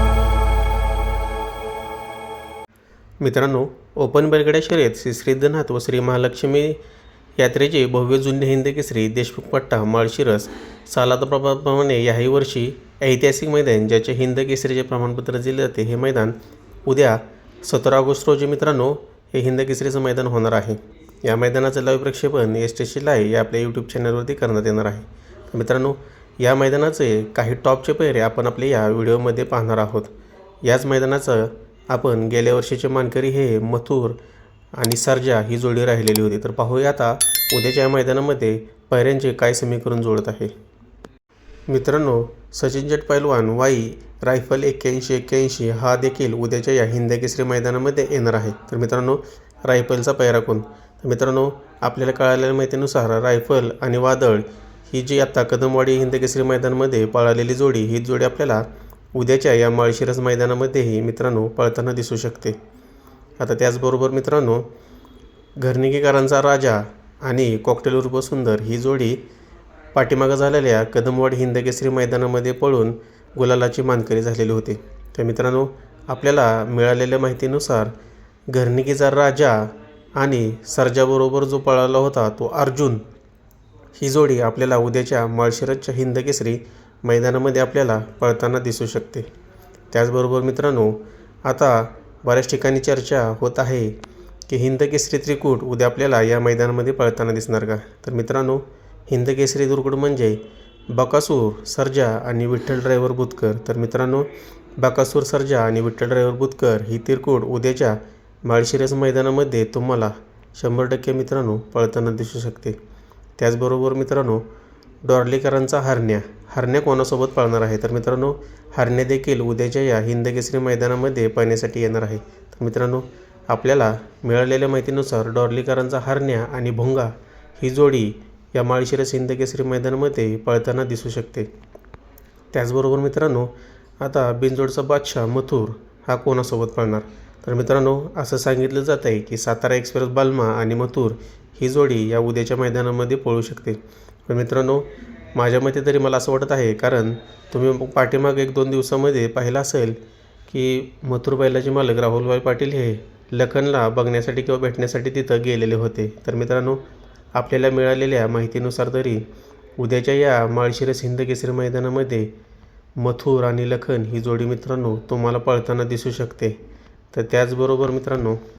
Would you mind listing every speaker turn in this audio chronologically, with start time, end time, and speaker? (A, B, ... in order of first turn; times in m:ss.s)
0:03.2-0:06.8 A
0:07.4-0:34.2 A
0:34.7-0:40.5 A
0:41.7-1:02.6 A
1:03.4-1:04.7 A
1:05.6-1:09.2 A
1:09.9-1:17.9 A
1:18.5-1:23.0 A
1:24.0-1:29.3 A
1:29.9-1:52.8 A
1:53.4-1:54.5 A
1:55.0-2:11.5 A
2:12.5-2:39.3 A
2:39.8-2:42.3 A
2:43.0-2:46.6 A
2:47.1-2:48.4 A